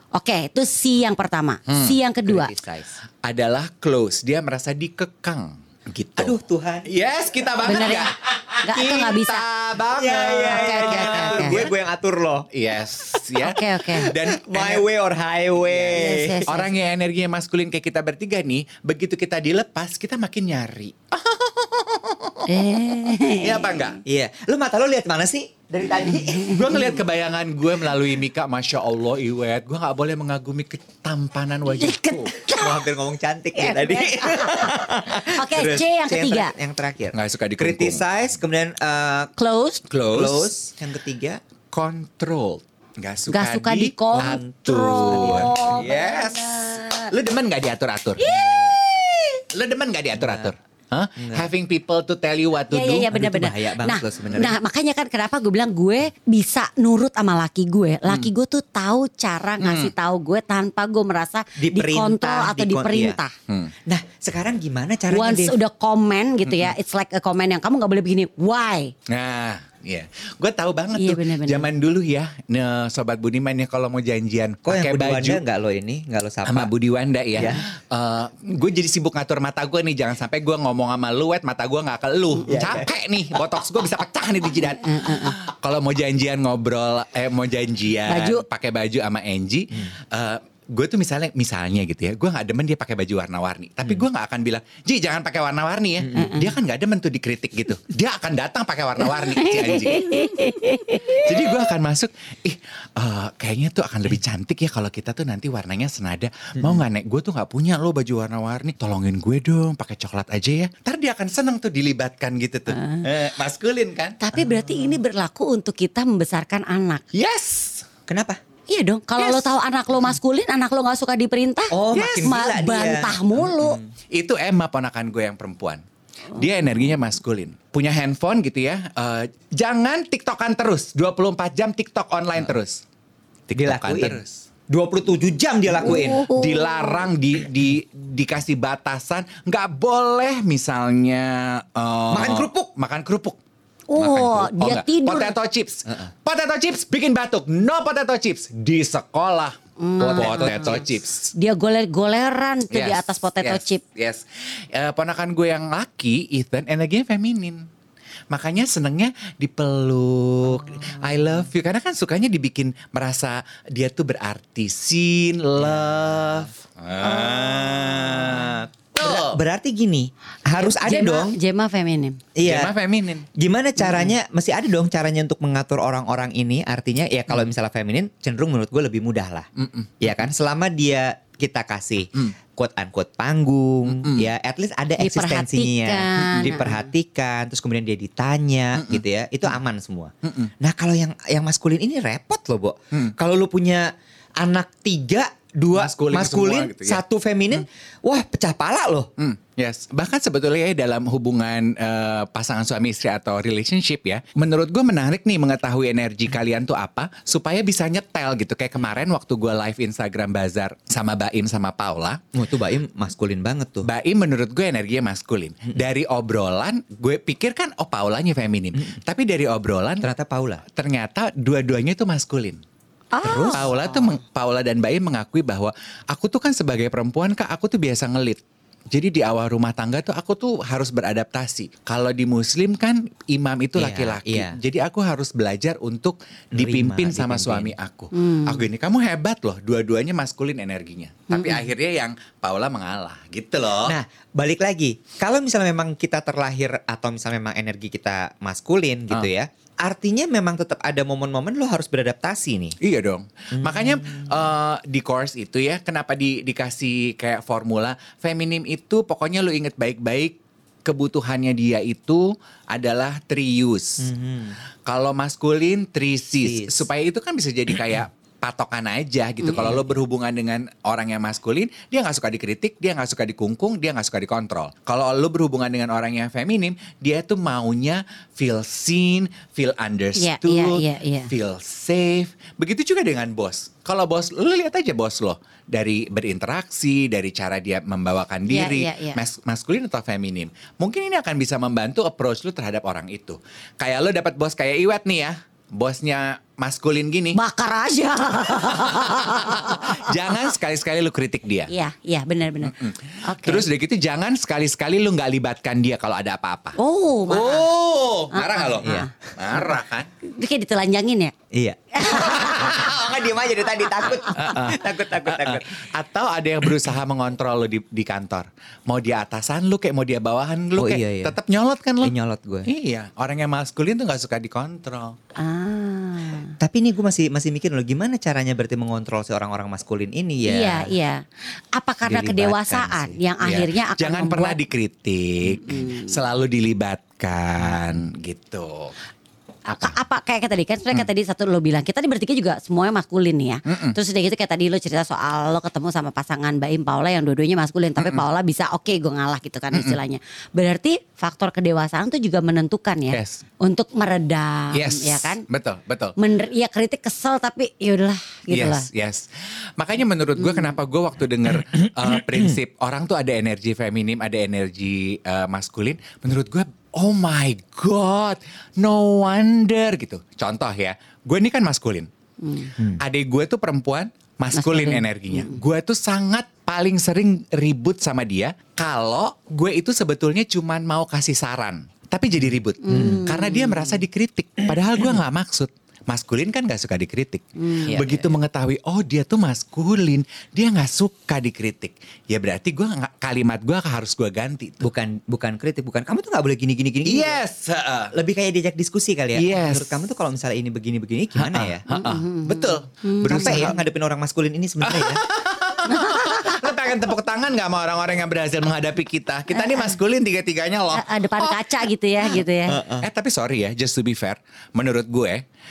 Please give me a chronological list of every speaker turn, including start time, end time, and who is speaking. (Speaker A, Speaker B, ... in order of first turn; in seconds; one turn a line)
Speaker A: 0.1-2.5
Speaker B: 1.7-2.0
Speaker C: 2.3-3.0
Speaker B: 3.2-11.7
Speaker C: 6.2-6.9
Speaker A: 7.6-8.1
Speaker A: 8.6-9.4
Speaker C: 9.9-12.5
Speaker A: 10.5-11.6
Speaker B: 12.5-14.8
Speaker A: 13.4-14.1
Speaker C: 14.0-16.5
Speaker A: 15.8-16.7
Speaker B: 16.5-22.6
Speaker A: 22.4-23.9
Speaker B: 23.2-24.0
Speaker C: 24.0-26.8
Speaker A: 26.1-26.9
Speaker B: 26.4-32.4
Speaker A: 31.7-32.8
Speaker C: 32.5-39.3
Speaker A: 33.6-36.5
Speaker B: 37.1-38.0
Speaker A: 39.4-39.8
Speaker B: 39.9-40.5
Speaker C: 40.1-41.4
Speaker B: 41.7-48.4
Speaker A: 43.3-47.1
Speaker C: 44.1-46.3
Speaker A: 48.2-49.3
Speaker C: 48.3-48.8
Speaker B: 49.5-53.1
Speaker C: 50.1-50.5
Speaker C: 51.2-51.5
Speaker A: 52.7-63.3
Speaker C: 53.1-54.5
Speaker B: 59.6-59.9
Speaker C: 61.6-63.2
Speaker B: 63.5-63.7
Speaker C: 63.9-65.6
Speaker A: 65.1-68.9
Speaker B: 69.1-75.4
Speaker A: 71.0-71.7
Speaker C: 74.7-76.7
Speaker B: 76.5-100.2
Speaker C: 77.3-77.6
Speaker C: 82.5-82.9
Speaker A: 84.8-85.3
Speaker A: 88.1-88.4
Speaker A: 96.1-96.5
Speaker A: 99.2-101.4
Speaker B: 101.1-114.2
Speaker A: 112.7-113.0
Speaker A: 114.2-117.0
Speaker B: 117.1-117.9
Speaker C: 118.1-118.4
Speaker A: 118.7-123.8
Speaker B: 119.2-119.4
Speaker C: 121.7-123.8
Speaker B: 121.9-122.4
Speaker B: 124.1-125.8
Speaker B: 126.3-132.8
Speaker B: 133.5-134.4
Speaker C: 133.5-136.3
Speaker A: 135.8-137.0
Speaker B: 135.8-143.4
Speaker C: 142.1-142.7
Speaker A: 143.9-145.3
Speaker B: 144.0-151.3
Speaker A: 149.8-150.8
Speaker C: 150.1-150.8
Speaker A: 151.3-153.8
Speaker B: 152.7-157.6
Speaker B: 158.3-169.4
Speaker C: 165.6-166.2
Speaker C: 167.1-171.4
Speaker A: 170.5-172.2
Speaker C: 172.3-172.7
Speaker B: 172.4-173.3
Speaker C: 173.3-179.5
Speaker B: 179.6-180.1
Speaker C: 180.0-199.1
Speaker B: 183.9-184.3
Speaker A: 185.0-186.8
Speaker B: 188.7-189.0
Speaker B: 190.2-190.5
Speaker B: 195.7-197.0
Speaker B: 199.2-212.2
Speaker C: 212.3-213.9
Speaker B: 213.8-220.1
Speaker C: 220.0-220.6
Speaker B: 220.7-222.6
Speaker A: 223.1-223.7
Speaker C: 223.2-223.7
Speaker B: 223.3-243.9
Speaker C: 233.8-234.6
Speaker C: 236.5-237.7
Speaker A: 238.1-238.6
Speaker A: 241.3-241.6
Speaker C: 243.8-252.8
Speaker B: 252.8-264.1
Speaker C: 253.6-254.3
Speaker C: 264.0-264.6
Speaker B: 264.9-297.4
Speaker C: 266.4-266.9
Speaker A: 280.2-281.3
Speaker A: 288.5-289.2
Speaker A: 297.3-300.1
Speaker B: 298.8-301.7
Speaker A: 301.7-303.6
Speaker B: 302.6-306.8
Speaker A: 306.8-307.6
Speaker B: 307.3-310.1
Speaker A: 308.3-309.1
Speaker C: 308.8-309.1
Speaker A: 310.2-311.3
Speaker C: 311.5-315.7
Speaker A: 311.9-312.7
Speaker B: 312.2-312.8
Speaker B: 314.3-322.1
Speaker C: 320.8-321.4
Speaker C: 322.0-322.7
Speaker B: 322.7-325.1
Speaker A: 325.4-326.5
Speaker C: 326.6-330.9
Speaker A: 330.4-331.2
Speaker A: 331.7-334.6
Speaker C: 332.0-333.2
Speaker B: 333.4-338.9
Speaker A: 335.6-336.1
Speaker A: 339.7-355.4
Speaker B: 343.7-344.0
Speaker B: 349.7-350.0
Speaker B: 353.1-353.4
Speaker B: 354.7-356.1
Speaker A: 356.2-358.9
Speaker B: 358.5-372.1
Speaker A: 360.4-360.7
Speaker A: 372.4-372.7
Speaker B: 373.0-394.9
Speaker A: 374.5-375.6
Speaker A: 382.8-384.0
Speaker C: 382.9-383.2
Speaker A: 387.6-388.0
Speaker C: 387.9-388.3
Speaker C: 394.8-397.4
Speaker B: 397.0-398.1
Speaker C: 398.1-401.8
Speaker B: 399.3-400.0
Speaker B: 401.4-403.7
Speaker A: 401.9-403.8
Speaker C: 403.2-405.2
Speaker B: 404.8-411.7
Speaker A: 405.9-406.7
Speaker A: 409.5-409.9
Speaker A: 410.9-412.8
Speaker C: 412.7-413.1
Speaker B: 412.9-415.4